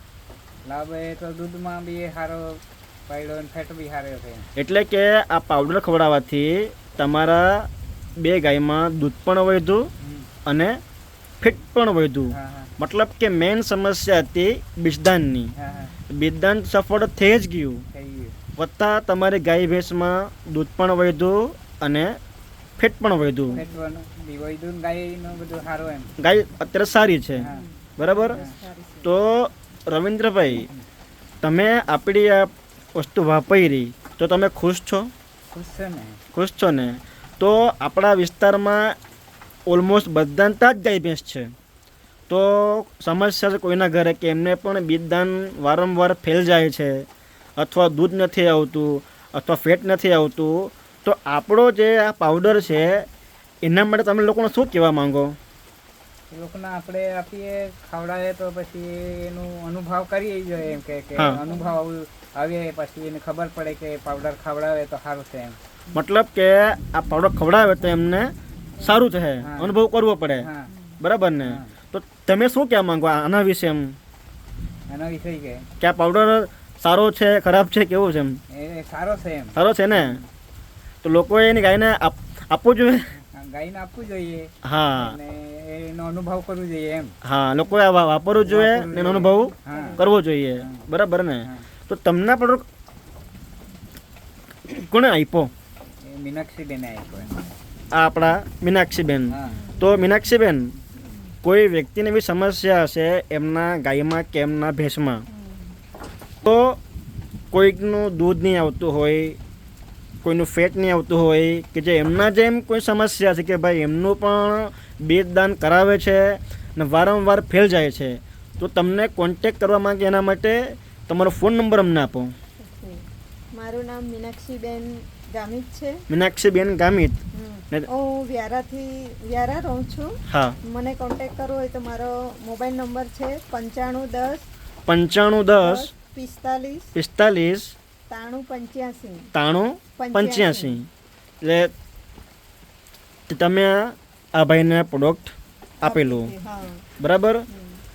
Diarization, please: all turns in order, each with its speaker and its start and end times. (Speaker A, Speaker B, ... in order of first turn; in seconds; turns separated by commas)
Speaker A: 0.7-4.5, Speaker B: 4.5-9.9, Speaker A: 10.0-10.3, Speaker B: 10.4-10.8, Speaker B: 11.4-15.5, Speaker A: 12.3-12.7, Speaker A: 15.6-15.9, Speaker B: 16.1-17.8, Speaker A: 17.9-18.3, Speaker B: 18.6-22.1, Speaker B: 22.8-23.6, Speaker A: 23.5-26.1, Speaker B: 26.2-28.4, Speaker C: 27.5-29.1, Speaker A: 28.2-28.6, Speaker B: 29.0-30.7, Speaker A: 30.6-30.8, Speaker B: 31.4-35.1, Speaker A: 35.5-36.2, Speaker B: 36.3-38.9, Speaker B: 39.7-41.5, Speaker B: 42.3-53.1, Speaker B: 53.6-55.4, Speaker A: 56.3-65.6, Speaker B: 61.1-61.4, Speaker B: 65.9-70.5, Speaker A: 69.4-69.8, Speaker A: 70.4-70.7, Speaker B: 71.0-74.0, Speaker A: 71.4-71.7, Speaker A: 74.9-75.7, Speaker B: 75.8-78.4, Speaker A: 78.5-80.2, Speaker B: 79.5-80.2, Speaker B: 81.0-83.1, Speaker A: 83.2-87.1, Speaker B: 84.6-85.2, Speaker B: 87.2-92.6, Speaker A: 88.4-90.0, Speaker C: 89.6-90.0, Speaker A: 90.6-90.8, Speaker B: 94.7-95.5, Speaker A: 96.1-97.4, Speaker B: 97.9-100.7, Speaker A: 99.3-99.6, Speaker C: 99.6-100.0, Speaker B: 101.4-105.2, Speaker C: 105.3-105.7, Speaker B: 106.4-106.8, Speaker B: 107.5-109.4, Speaker B: 110.2-122.3, Speaker C: 122.6-123.0, Speaker C: 123.5-126.0, Speaker B: 126.1-127.9, Speaker C: 127.3-134.4, Speaker B: 130.3-130.6, Speaker B: 134.9-135.9, Speaker C: 135.6-136.9, Speaker B: 136.9-137.7, Speaker C: 138.1-139.3, Speaker B: 139.3-140.9, Speaker C: 140.0-140.8, Speaker B: 141.4-141.7, Speaker B: 143.3-146.3, Speaker C: 145.8-146.8, Speaker B: 147.0-147.4, Speaker C: 147.5-147.8